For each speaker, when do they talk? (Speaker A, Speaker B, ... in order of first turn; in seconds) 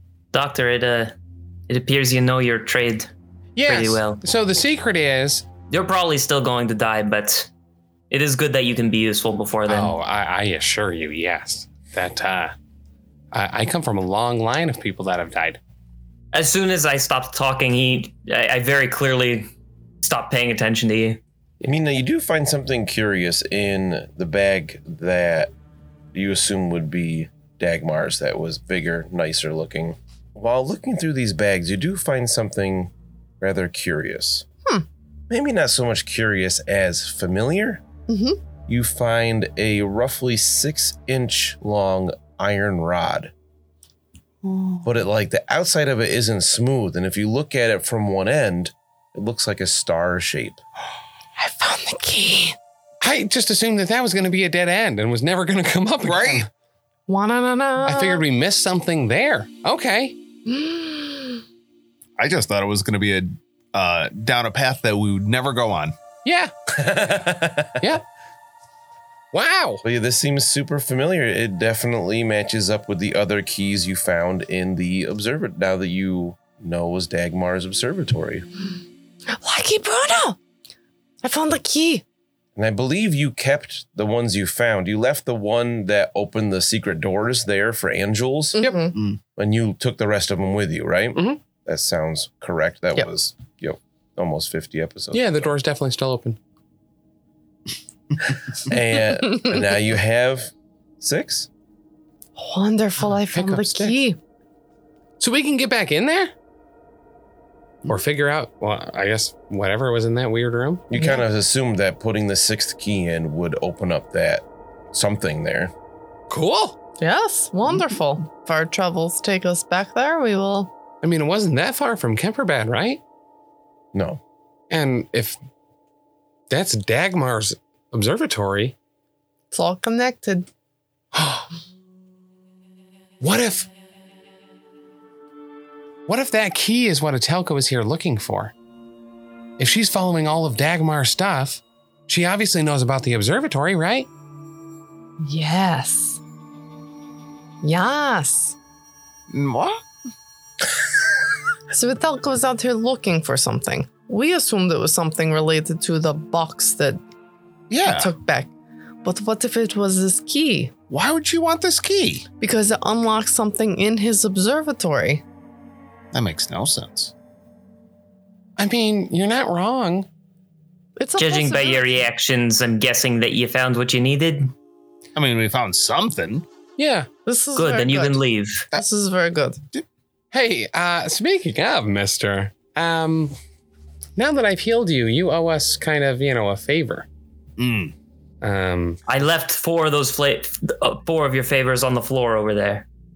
Speaker A: 0.3-1.1, 1.7-3.1, 3.6-4.2, 5.7-7.5, 8.1-10.0, 16.3-19.5, 20.0-21.2, 171.2-174.5, 177.6-178.7, 189.1-192.9
Speaker B: 3.6-5.5, 9.7-12.5, 13.3-15.6, 53.0-56.5, 57.8-60.2, 66.2-66.5, 67.8-68.0, 69.3-69.8, 95.1-96.4, 103.2-104.0, 105.2-106.3, 107.9-110.9, 116.3-116.8, 121.0-123.0, 124.7-125.4, 126.5-128.8, 131.1-131.5, 133.2-133.7, 136.1-138.5, 139.6-144.1, 168.6-170.1, 176.8-177.1, 180.3-183.4, 184.2-187.1, 188.4-189.0
Speaker C: 21.6-25.5, 26.1-34.5, 35.3-37.8, 38.7-43.3, 44.8-50.6, 66.7-67.9, 69.8-78.5, 82.6-88.6, 89.4-95.4, 98.6-101.5, 110.9-115.7, 123.9-124.2
Speaker D: 38.1-38.4, 51.4-52.6, 57.1-58.2, 60.5-61.4, 79.3-80.4, 81.2-82.0, 88.5-89.0, 102.4-104.2, 111.0-111.2, 117.0-120.7, 129.5-130.5, 145.2-146.2, 147.6-148.6, 151.7-157.0, 157.8-158.5, 159.0-160.7, 162.4-165.2, 171.0-172.0, 177.2-179.6
Speaker E: 44.5-44.8, 56.0-56.5, 62.2-66.0, 88.9-89.2, 149.3-149.8, 157.7-158.1, 160.9-162.3, 166.1-167.1, 175.2-176.5, 187.6-187.9